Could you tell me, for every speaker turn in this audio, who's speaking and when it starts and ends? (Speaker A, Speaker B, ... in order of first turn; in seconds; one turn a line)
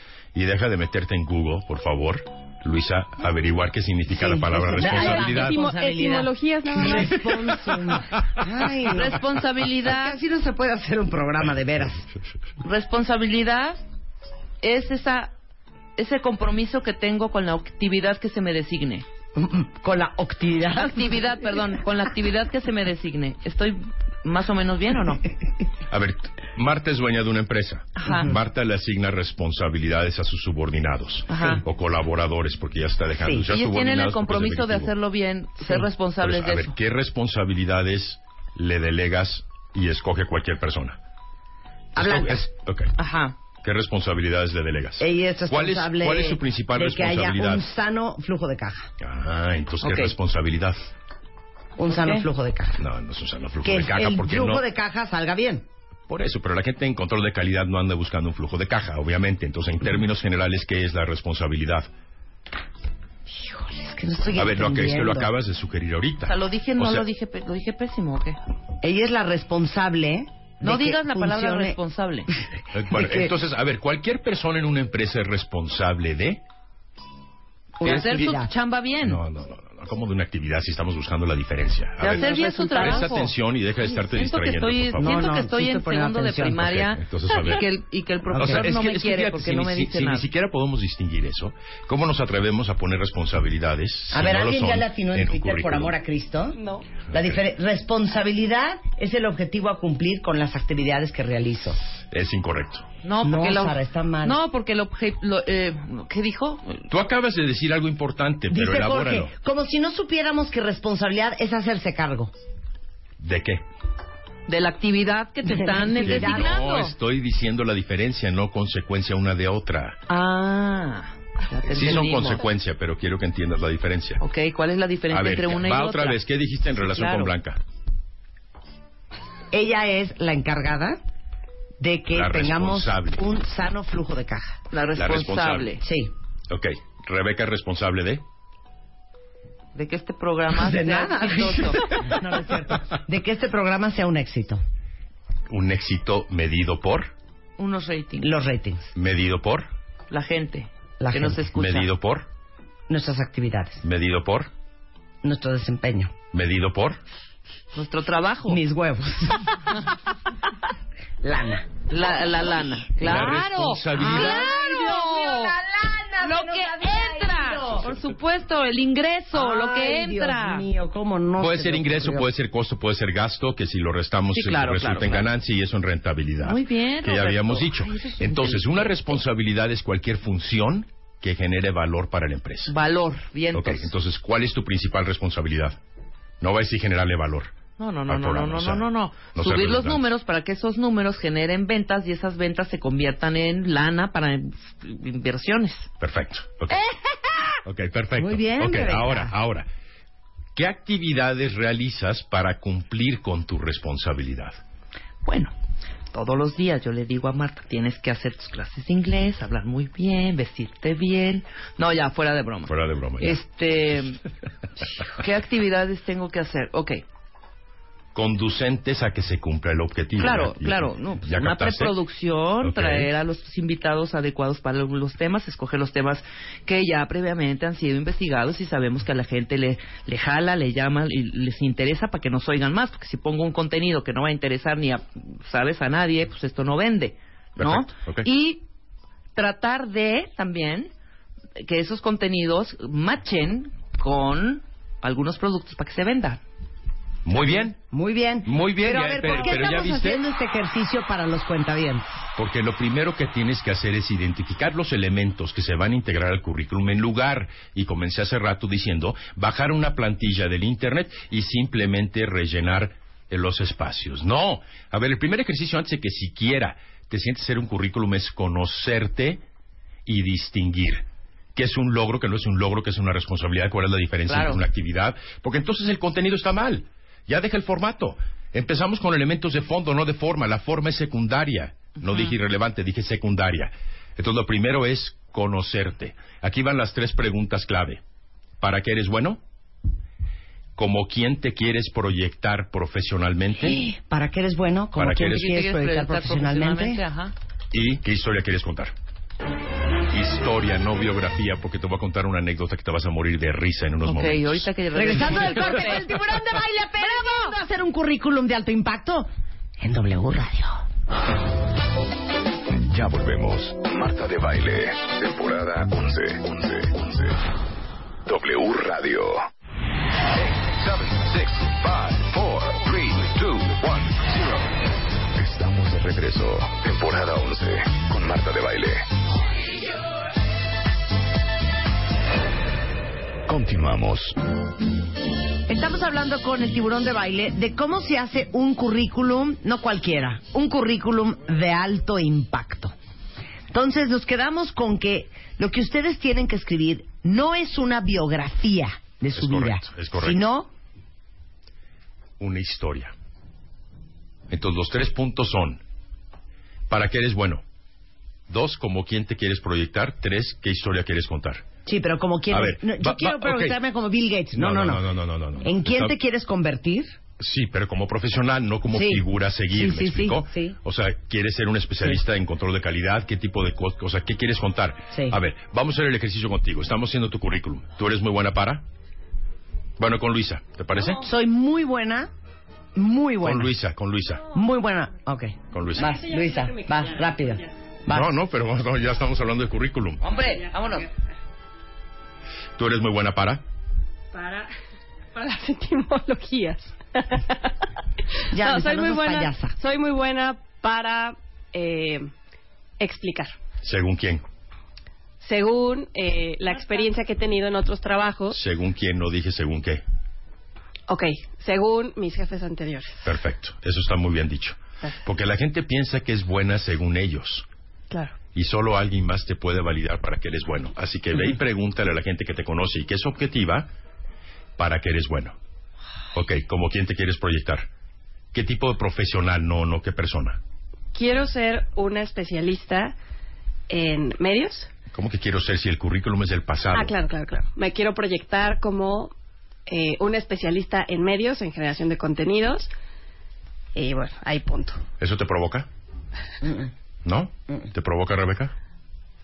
Speaker A: 0.3-5.6
Speaker B: 4.1-12.1
Speaker C: 4.8-7.6
Speaker A: 8.1-8.5
Speaker D: 8.8-10.2
Speaker D: 12.6-13.8
Speaker D: 14.6-15.3
Speaker D: 16.0-19.1
Speaker B: 19.4-21.1
Speaker D: 20.7-25.2
Speaker A: 25.9-34.9
Speaker D: 28.0-28.3
Speaker B: 28.1-28.4
Speaker D: 31.3-31.6
Speaker B: 33.2-33.5
Speaker D: 33.5-36.8
Speaker A: 36.2-41.0
Speaker B: 42.0-42.5
Speaker A: 42.0-42.9
Speaker D: 43.0-43.4
Speaker A: 43.6-47.7
Speaker B: 45.0-48.9
Speaker A: 49.0-50.8
Speaker D: 49.8-50.1
Speaker B: 51.8-52.8
Speaker D: 51.9-52.2
Speaker A: 52.8-54.6
Speaker B: 53.6-55.7
Speaker A: 56.1-61.9
Speaker B: 63.3-65.3
Speaker A: 64.3-67.1
Speaker D: 66.3-68.4
Speaker B: 68.8-71.8
Speaker D: 70.6-72.3
Speaker A: 72.7-76.4
Speaker B: 72.9-73.3
Speaker B: 77.8-78.5
Speaker D: 77.8-79.2
Speaker A: 79.0-85.4
Speaker D: 82.0-83.3
Speaker D: 83.9-90.3
Speaker B: 85.0-86.7
Speaker A: 86.6-87.7
Speaker B: 88.3-88.7
Speaker A: 88.4-95.9
Speaker B: 94.1-96.6
Speaker C: 96.6-96.8
Speaker B: 97.1-101.8
Speaker A: 97.1-97.4
Speaker A: 102.1-102.9
Speaker D: 103.0-106.9
Speaker B: 103.2-104.4
Speaker A: 106.9-109.3
Speaker B: 108.5-112.3
Speaker A: 113.2-113.7
Speaker D: 114.5-117.0
Speaker B: 115.5-116.5
Speaker A: 116.0-120.0
Speaker D: 120.1-122.4
Speaker A: 121.7-124.2
Speaker D: 124.2-126.2
Speaker A: 125.1-127.6
Speaker D: 126.8-127.3
Speaker B: 129.5-131.0
Speaker B: 131.8-134.6
Speaker A: 132.1-133.2
Speaker D: 134.7-135.8
Speaker A: 135.0-135.8
Speaker B: 135.8-136.1
Speaker A: 136.5-138.2
Speaker D: 139.8-142.1
Speaker B: 140.5-144.6
Speaker A: 145.5-147.1
Speaker D: 147.6-148.3
Speaker B: 148.2-148.9
Speaker A: 148.9-149.7
Speaker D: 150.1-151.9
Speaker B: 151.0-151.4
Speaker A: 151.5-152.3
Speaker B: 152.9-153.8
Speaker A: 153.8-154.5
Speaker B: 155.2-156.1
Speaker A: 156.3-157.0
Speaker D: 157.7-158.6
Speaker B: 158.5-159.8
Speaker B: 161.2-161.7
Speaker D: 161.9-165.6
Speaker A: 163.0-164.5
Speaker B: 163.9-167.9
Speaker D: 166.2-170.7
Speaker B: 169.3-172.3
Speaker A: 171.4-182.7
Speaker D: 174.3-175.3
Speaker D: 176.4-179.2
Speaker D: 182.7-183.9
Speaker A: 183.5-185.8
Speaker A: 186.4-187.5
Speaker D: 187.8-195.9
Speaker A: 188.1-190.1
Speaker A: 196.0-196.8
Speaker D: 196.7-197.4
Speaker A: 197.7-199.7
Speaker B: 198.2-199.3
Speaker A: 200.6-204.6
Speaker D: 205.2-205.5
Speaker D: 206.1-214.2
Speaker A: 212.7-213.4
Speaker D: 215.0-217.0
Speaker A: 218.1-222.0
Speaker D: 220.2-238.6
Speaker A: 222.6-223.1
Speaker A: 237.6-238.3
Speaker D: 239.4-240.9
Speaker D: 241.6-246.4
Speaker A: 247.2-247.8
Speaker B: 247.9-252.1
Speaker A: 248.5-250.3
Speaker A: 252.4-269.4
Speaker A: 270.1-288.0
Speaker D: 274.3-274.6
Speaker D: 282.0-282.4
Speaker A: 288.6-289.4
Speaker A: 290.8-293.8
Speaker B: 293.6-297.0
Speaker A: 295.0-295.6
Speaker D: 295.2-297.3
Speaker A: 297.7-298.9
Speaker A: 300.1-304.7
Speaker D: 304.1-306.1
Speaker B: 304.9-309.3
Speaker D: 307.0-307.6
Speaker B: 309.8-310.8
Speaker E: 312.7-317.4
Speaker E: 318.3-319.5
Speaker E: 320.4-324.7
Speaker E: 325.4-329.1
Speaker E: 333.5-334.4
Speaker B: 335.7-342.9
Speaker B: 343.7-350.7
Speaker A: 349.4-350.5
Speaker A: 352.4-353.1
Speaker A: 354.5-355.8
Speaker A: 356.9-357.6
Speaker A: 358.5-361.7
Speaker B: 361.9-365.0
Speaker A: 362.5-363.8
Speaker A: 364.5-366.1
Speaker B: 365.6-367.1
Speaker A: 367.4-378.9
Speaker B: 368.9-370.8
Speaker B: 375.1-375.4
Speaker A: 380.0-381.2
Speaker B: 381.2-382.3
Speaker B: 382.9-383.7
Speaker A: 383.4-384.4
Speaker B: 384.5-388.3
Speaker A: 385.7-386.2
Speaker C: 386.0-387.7
Speaker A: 388.1-390.2
Speaker D: 390.2-391.1
Speaker A: 392.8-393.6
Speaker C: 394.3-394.7
Speaker C: 395.4-397.7
Speaker C: 398.5-402.3
Speaker B: 398.5-399.7
Speaker C: 403.0-403.6
Speaker A: 403.8-404.4
Speaker C: 405.4-408.6
Speaker A: 408.5-410.0
Speaker C: 411.1-413.2
Speaker A: 413.2-417.7
Speaker A: 418.5-423.9
Speaker A: 424.8-425.6
Speaker A: 426.3-427.9
Speaker A: 428.5-430.6
Speaker C: 431.1-433.1
Speaker C: 433.9-434.9
Speaker A: 435.1-437.1
Speaker C: 436.9-439.3
Speaker C: 439.9-442.9
Speaker C: 443.9-445.0
Speaker A: 445.2-445.9
Speaker B: 446.6-446.9
Speaker A: 447.2-448.7